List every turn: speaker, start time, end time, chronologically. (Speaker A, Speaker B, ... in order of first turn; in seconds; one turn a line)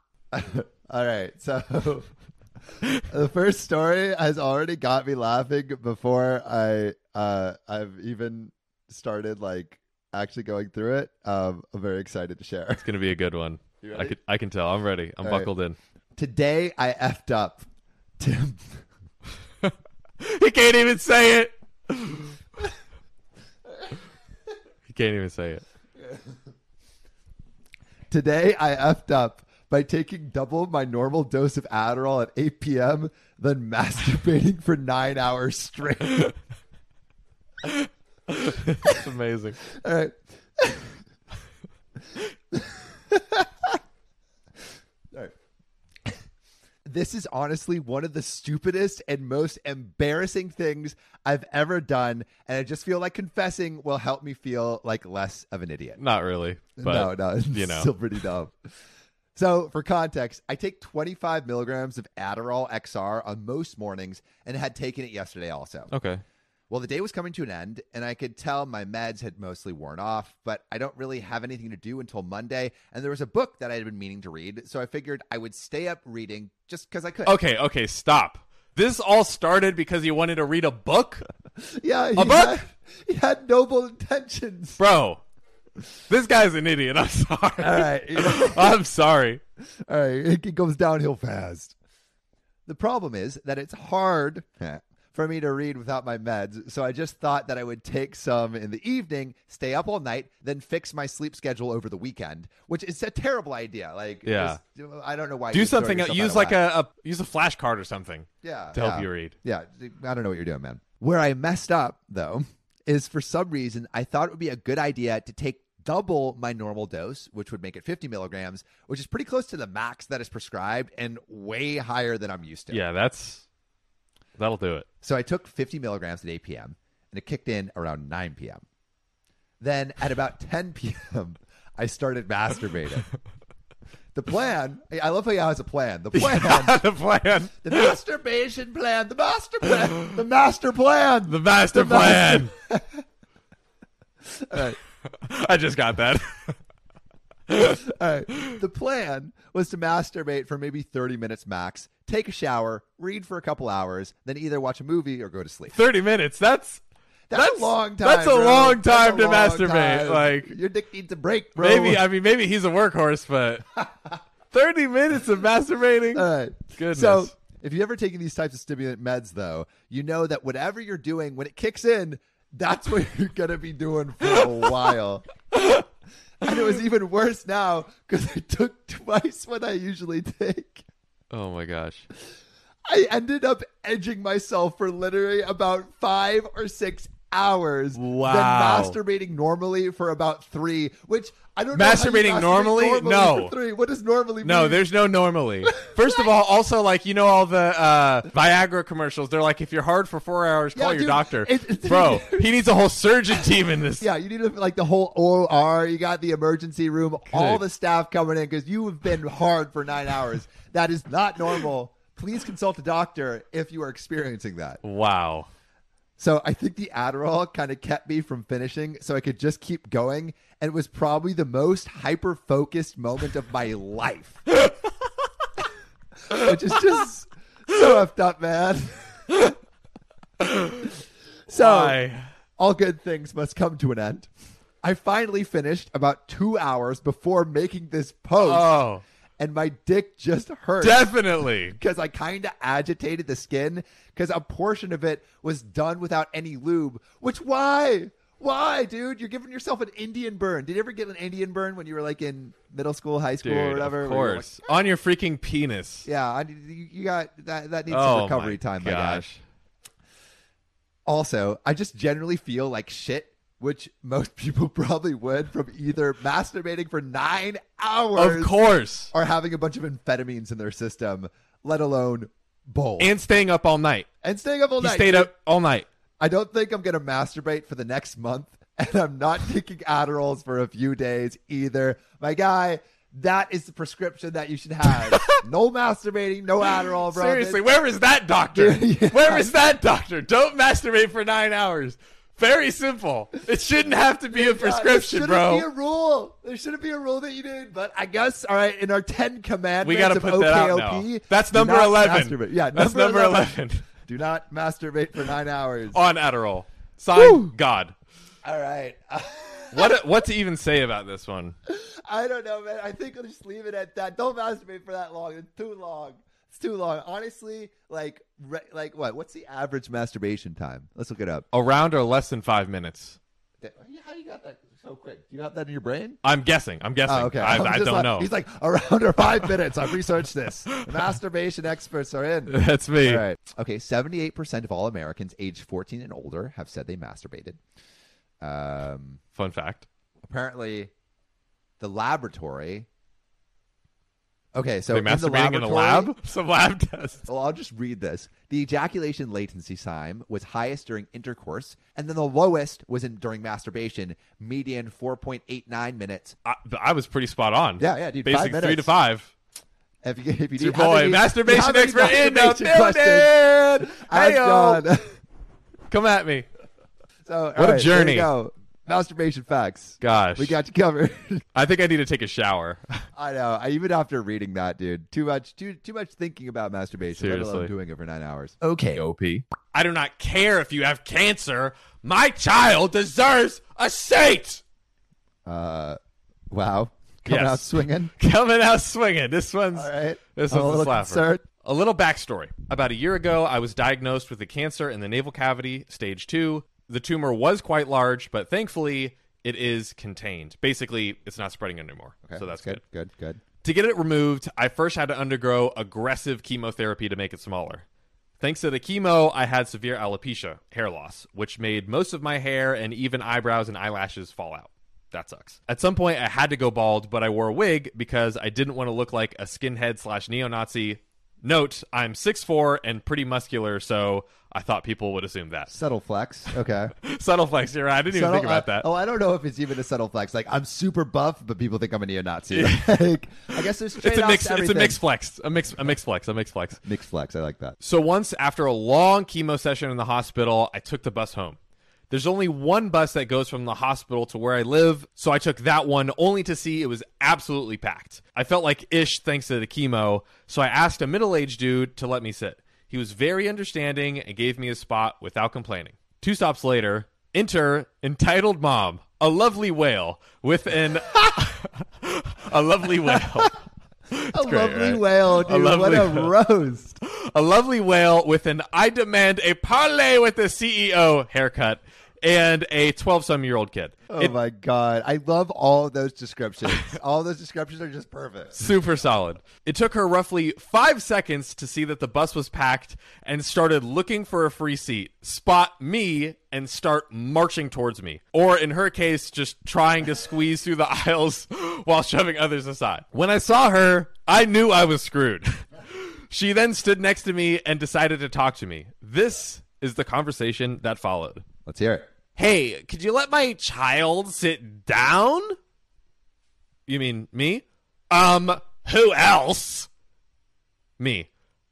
Speaker A: 0.3-2.1
Speaker A: 3.1-12.9
Speaker B: 12.8-15.8
Speaker A: 13.8-14.2
Speaker A: 15.2-15.5
Speaker A: 16.2-17.6
Speaker A: 18.2-18.6
Speaker B: 20.2-22.3
Speaker B: 24.9-25.6
Speaker A: 28.1-36.3
Speaker B: 37.6-39.6
Speaker A: 39.7-41.0
Speaker A: 42.5-43.8
Speaker A: 46.9-56.0
Speaker B: 56.0-58.0
Speaker A: 56.8-58.5
Speaker A: 59.3-65.9
Speaker B: 65.9-66.2
Speaker A: 66.7-77.4
Speaker B: 77.2-81.2
Speaker A: 81.8-84.8
Speaker B: 82.2-82.6
Speaker B: 84.8-85.2
Speaker B: 86.1-89.4
Speaker A: 87.6-88.8
Speaker A: 89.9-91.8
Speaker A: 92.7-106.6
Speaker B: 104.2-104.6
Speaker B: 105.5-109.3
Speaker A: 108.4-122.8
Speaker B: 122.7-123.5
Speaker B: 124.4-124.9
Speaker A: 125.0-128.6
Speaker A: 129.6-133.1
Speaker A: 134.1-136.8
Speaker B: 136.1-137.9
Speaker A: 137.6-142.8
Speaker B: 141.3-142.5
Speaker A: 144.3-144.8
Speaker B: 145.0-146.6
Speaker A: 147.6-155.8
Speaker B: 155.7-156.8
Speaker A: 157.3-162.0
Speaker B: 157.3-160.5
Speaker B: 161.6-163.7
Speaker B: 164.5-167.3
Speaker A: 166.1-175.3
Speaker B: 174.3-174.8
Speaker B: 175.5-175.8
Speaker A: 176.4-180.8
Speaker B: 181.3-182.1
Speaker A: 182.9-194.8
Speaker B: 187.9-189.0
Speaker B: 191.7-193.5
Speaker B: 194.4-204.0
Speaker A: 195.6-196.3
Speaker A: 200.7-202.5
Speaker A: 204.0-214.8
Speaker B: 207.3-207.6
Speaker B: 214.8-215.5
Speaker A: 216.2-224.4
Speaker A: 226.3-229.4
Speaker B: 230.4-230.9
Speaker A: 231.5-232.0
Speaker B: 231.5-232.2
Speaker A: 232.6-234.3
Speaker A: 234.8-238.8
Speaker B: 238.4-239.0
Speaker A: 239.4-254.8
Speaker B: 240.8-241.8
Speaker B: 253.4-256.1
Speaker A: 256.1-259.2
Speaker B: 257.9-259.4
Speaker A: 261.1-268.6
Speaker B: 268.2-269.1
Speaker A: 269.1-273.1
Speaker B: 273.0-274.1
Speaker A: 274.2-275.3
Speaker B: 274.8-275.9
Speaker A: 276.2-287.6
Speaker B: 284.9-285.4
Speaker B: 286.8-295.7
Speaker A: 288.6-289.5
Speaker A: 294.3-303.5
Speaker B: 299.8-303.9
Speaker A: 304.1-306.0
Speaker B: 305.9-307.9
Speaker A: 307.1-307.5
Speaker A: 308.4-310.1
Speaker B: 309.7-311.6
Speaker A: 311.7-321.5
Speaker B: 321.5-323.2
Speaker A: 323.6-326.2
Speaker B: 326.2-328.3
Speaker A: 327.1-337.6
Speaker B: 332.5-333.2
Speaker A: 338.4-339.2
Speaker B: 339.3-339.9
Speaker A: 340.3-340.9
Speaker A: 341.8-342.9
Speaker A: 344.6-346.1
Speaker B: 344.9-347.2
Speaker A: 347.2-356.4
Speaker B: 356.4-359.3
Speaker A: 357.8-358.9
Speaker A: 360.0-365.0
Speaker B: 360.6-364.8
Speaker B: 365.9-366.5
Speaker A: 367.2-371.4
Speaker B: 367.6-368.3
Speaker B: 370.0-370.6
Speaker B: 371.6-372.8
Speaker A: 373.2-379.0
Speaker B: 377.2-377.7
Speaker B: 378.9-384.6
Speaker A: 385.5-386.0
Speaker A: 386.5-388.1
Speaker B: 387.3-402.8
Speaker A: 389.7-391.4
Speaker A: 402.2-403.4
Speaker B: 403.6-407.9
Speaker B: 408.4-425.7
Speaker A: 425.7-426.9
Speaker B: 427.0-428.9
Speaker A: 428.1-435.0
Speaker B: 432.5-436.8
Speaker A: 436.9-437.8
Speaker B: 437.8-441.6
Speaker B: 442.1-463.6
Speaker A: 463.1-463.5
Speaker B: 464.1-466.3
Speaker A: 464.3-467.0
Speaker B: 467.0-474.4
Speaker A: 474.1-478.7
Speaker B: 478.6-501.4
Speaker A: 501.7-502.1
Speaker B: 502.4-505.6
Speaker B: 506.9-509.9
Speaker B: 511.0-511.3